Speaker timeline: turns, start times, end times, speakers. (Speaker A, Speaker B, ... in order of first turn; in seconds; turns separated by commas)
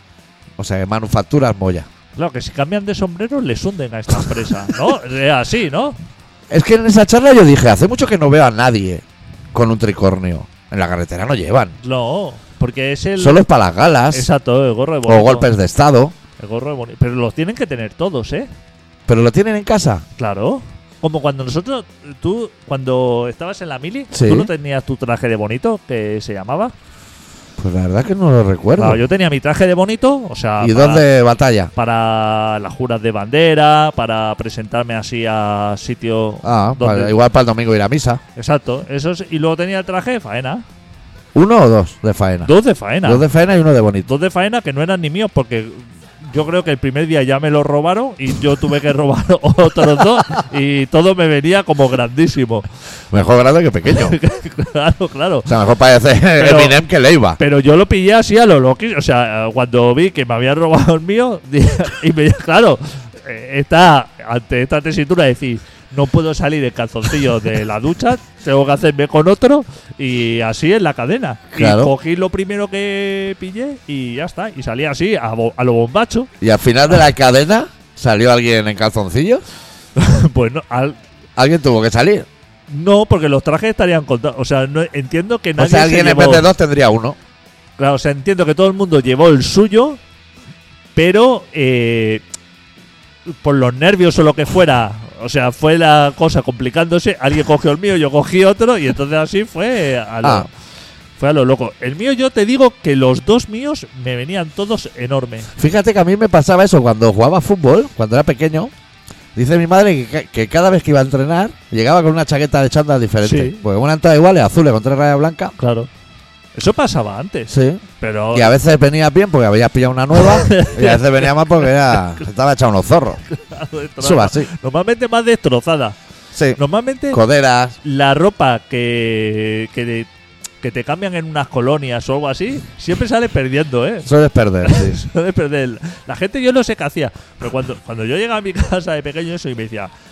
Speaker A: 0.6-1.9, Speaker B: 2.1-6.0, Speaker A: 6.5-11.8, Speaker B: 11.8-13.4, Speaker A: 13.2-14.3, Speaker B: 14.1-15.5, Speaker A: 15.0-16.1, Speaker B: 16.4-18.5, Speaker A: 19.1-20.1, Speaker B: 20.2-26.7, Speaker A: 24.1-24.5, Speaker A: 27.6-29.0, Speaker B: 28.8-31.1, Speaker A: 30.6-31.7, Speaker B: 31.7-37.1, Speaker A: 36.4-38.2, Speaker B: 38.4-40.6, Speaker A: 41.3-42.5, Speaker B: 42.4-43.2, Speaker A: 43.0-44.1, Speaker B: 44.0-52.7, Speaker A: 53.1-54.2, Speaker B: 53.9-55.5, Speaker A: 55.5-57.4, Speaker B: 56.4-56.7, Speaker B: 57.4-76.3, Speaker A: 71.5-71.9, Speaker A: 76.4-79.4, Speaker B: 80.0-81.0, Speaker A: 81.3-82.3, Speaker B: 82.7-86.5, Speaker A: 85.6-87.2, Speaker B: 87.8-90.0, Speaker B: 90.9-92.2, Speaker B: 93.3-100.5, Speaker B: 101.2-105.5, Speaker A: 105.6-108.7, Speaker A: 109.3-115.5, Speaker B: 113.2-113.6, Speaker B: 115.6-115.9, Speaker B: 116.5-118.5, Speaker A: 117.5-123.2, Speaker B: 120.1-121.3, Speaker B: 123.3-126.0, Speaker A: 124.0-124.5, Speaker A: 126.3-126.6, Speaker B: 126.5-127.2, Speaker A: 127.1-127.8, Speaker B: 127.8-130.1, Speaker B: 130.6-134.1, Speaker A: 134.0-135.0, Speaker B: 134.6-139.9